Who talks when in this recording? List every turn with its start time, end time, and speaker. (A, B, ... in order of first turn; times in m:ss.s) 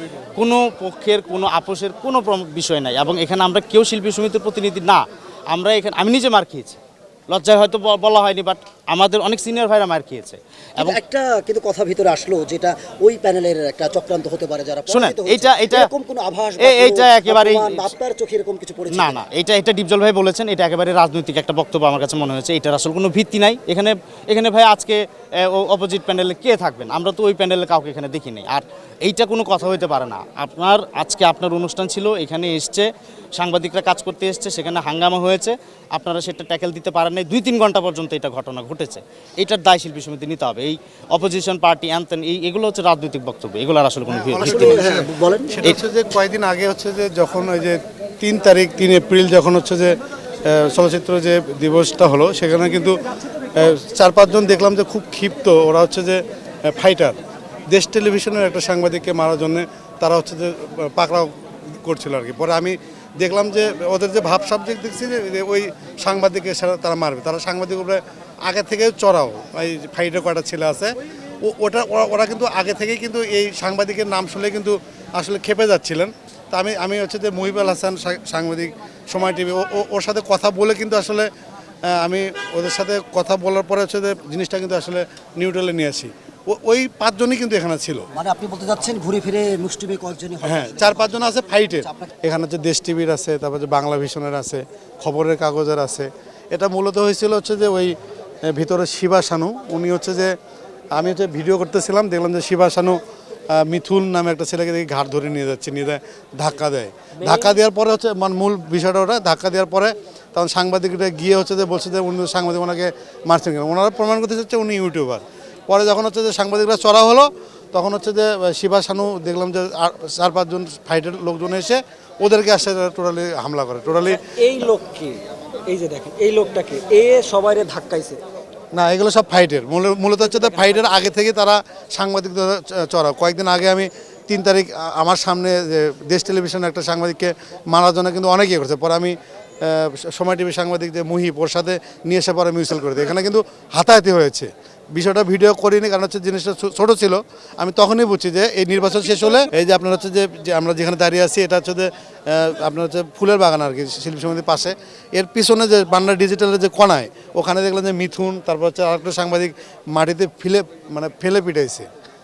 0:00.4-0:11.0 A
0:10.8-0:19.2 B
0:14.9-0:15.9 A
0:16.6-0:17.9 A
0:18.9-0:45.0 A
0:44.1-0:49.9 C
0:44.4-0:45.7 B
0:50.5-0:52.9 C
0:53.5-0:57.1 C
0:57.7-1:21.3 C
1:21.9-1:28.1 C
1:28.1-1:32.1 B
1:30.4-1:37.9 C
1:38.5-1:40.3 C
1:40.9-1:43.0 C
1:43.5-2:04.2 C
1:47.2-1:47.6 D
2:04.1-2:08.2 D
2:08.7-2:41.9 C
2:10.2-2:10.9 D